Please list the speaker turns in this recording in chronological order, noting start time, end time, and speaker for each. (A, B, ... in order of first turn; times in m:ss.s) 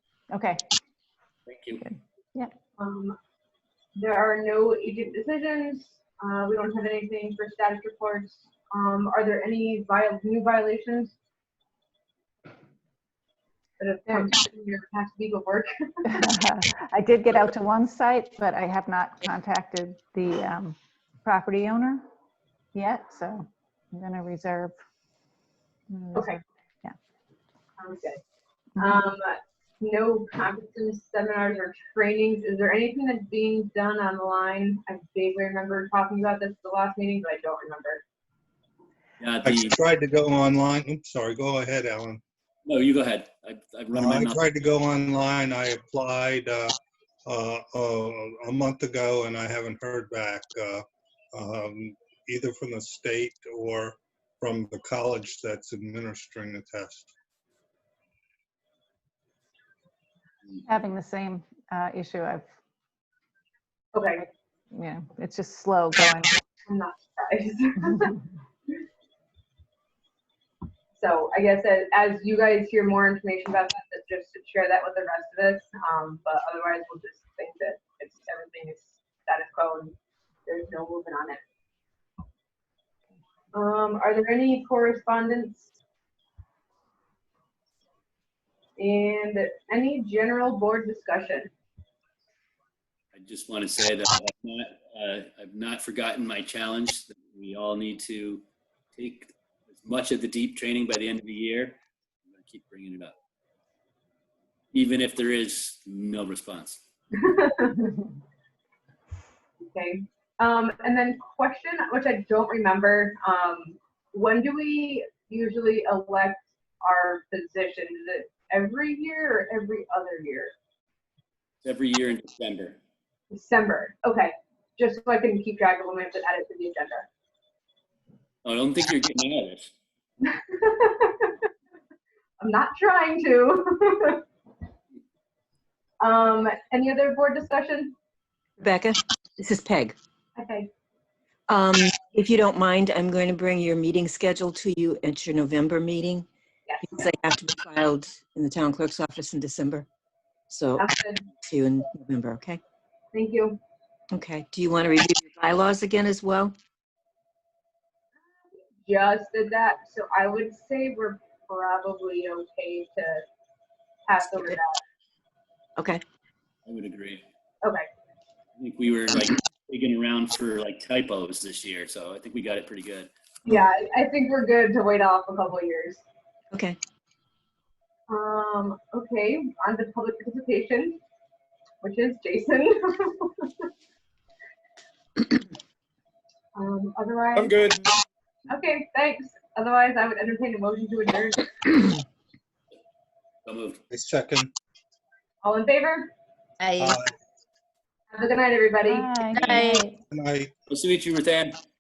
0:00.3-0:00.6 A
0:01.5-0:01.8 B
0:01.8-0:02.5 A
0:02.8-0:03.2 C
0:04.0-0:11.1 C
0:13.8-0:16.2 C
0:16.0-0:22.0 A
0:22.7-0:24.8 A
0:25.9-0:27.0 A
0:27.8-0:28.2 C
0:28.8-0:29.0 A
0:28.8-0:38.0 C
0:39.2-0:39.8 B
0:39.4-0:42.2 D
0:42.7-0:44.4 B
0:43.9-0:46.7 D
0:47.3-0:57.1 D
1:00.7-1:02.5 A
1:03.9-1:04.3 C
1:04.7-1:06.4 A
1:06.7-1:08.2 C
1:10.9-1:20.0 C
1:20.5-1:21.4 C
1:23.5-1:25.7 C
1:28.8-1:31.5 C
1:33.1-1:43.2 B
1:44.7-1:46.8 B
1:47.2-1:47.9 C
1:49.7-2:00.5 C
2:01.6-2:02.8 B
2:03.3-2:07.1 C
2:08.4-2:09.7 B
2:10.2-2:11.4 C
2:12.4-2:14.2 C
2:16.0-2:17.9 C
2:18.6-2:20.0 E
2:20.4-2:20.7 C
2:21.5-2:26.3 E
2:26.7-2:27.0 C
2:26.8-2:29.9 E
2:30.5-2:32.6 E
2:30.8-2:31.2 C
2:33.1-2:33.6 C
2:34.1-2:36.6 E
2:38.8-2:43.2 C
2:44.1-2:44.8 C
2:45.8-2:46.0 E
2:46.7-2:47.2 B
2:47.6-2:47.9 C
2:48.6-2:53.1 B
2:53.4-2:56.0 C
2:56.5-2:56.8 E
2:58.1-3:01.0 C
3:01.8-3:03.7 C
3:06.6-3:07.6 C
3:07.4-3:07.9 B
3:08.5-3:11.8 C
3:13.5-3:13.8 B
3:13.9-3:14.5 D
3:15.4-3:16.1 C
3:16.8-3:17.1 D
3:18.1-3:19.1 C
3:18.8-3:20.0 A
3:20.1-3:20.5 D
3:20.7-3:21.6 B